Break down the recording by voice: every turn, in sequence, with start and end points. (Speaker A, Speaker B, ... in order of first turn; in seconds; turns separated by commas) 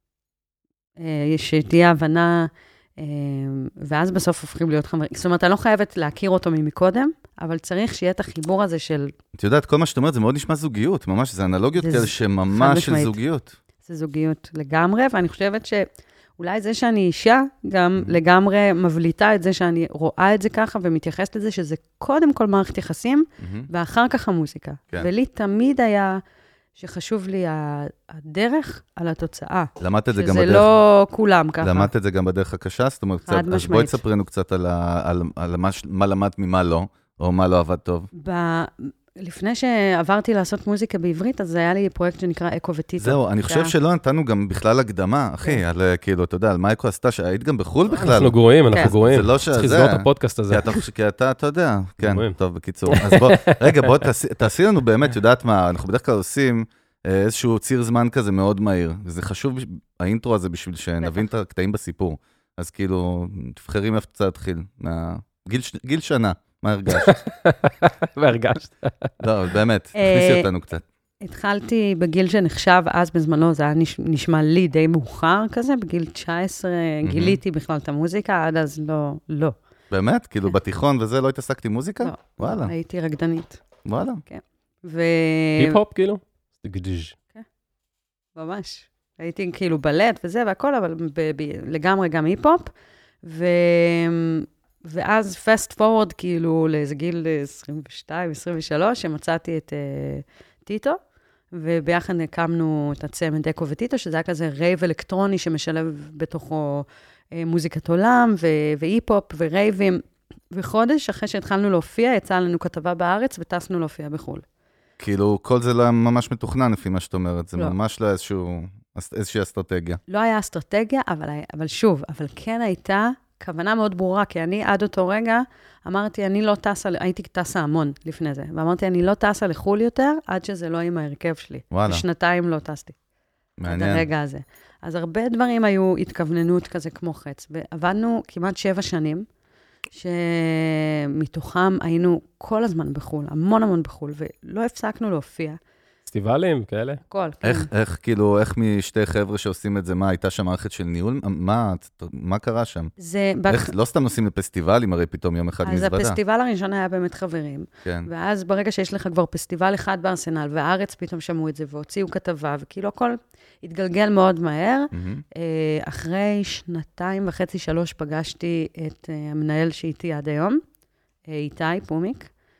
Speaker A: 1.0-9.1, Speaker B: 9.3-13.5, Speaker A: 11.8-13.2, Speaker A: 13.8-15.9, Speaker A: 16.4-26.2, Speaker B: 23.4-23.7, Speaker A: 26.8-31.9, Speaker B: 29.8-30.7, Speaker B: 31.6-38.1, Speaker A: 33.3-34.0, Speaker A: 38.1-43.7, Speaker B: 43.0-67.1, Speaker C: 47.9-50.7, Speaker C: 52.0-52.3, Speaker C: 52.9-54.0, Speaker C: 66.9-69.1, Speaker B: 69.2-70.8, Speaker A: 70.0-70.5, Speaker A: 71.2-79.5, Speaker B: 77.0-77.4, Speaker B: 79.9-82.7, Speaker A: 82.0-83.6, Speaker B: 83.8-84.2, Speaker A: 84.2-85.8, Speaker C: 85.6-87.1, Speaker A: 88.3-92.7, Speaker A: 93.2-101.0, Speaker A: 101.5-114.4, Speaker B: 115.0-120.0, Speaker A: 120.1-132.9, Speaker B: 131.7-132.0, Speaker B: 133.6-134.1, Speaker A: 133.7-139.3, Speaker A: 139.9-145.6, Speaker C: 146.1-147.0, Speaker A: 147.1-147.7, Speaker B: 147.4-152.9, Speaker A: 153.0-153.7, Speaker B: 153.5-156.2, Speaker A: 155.6-170.6, Speaker B: 164.9-165.2, Speaker A: 171.3-172.3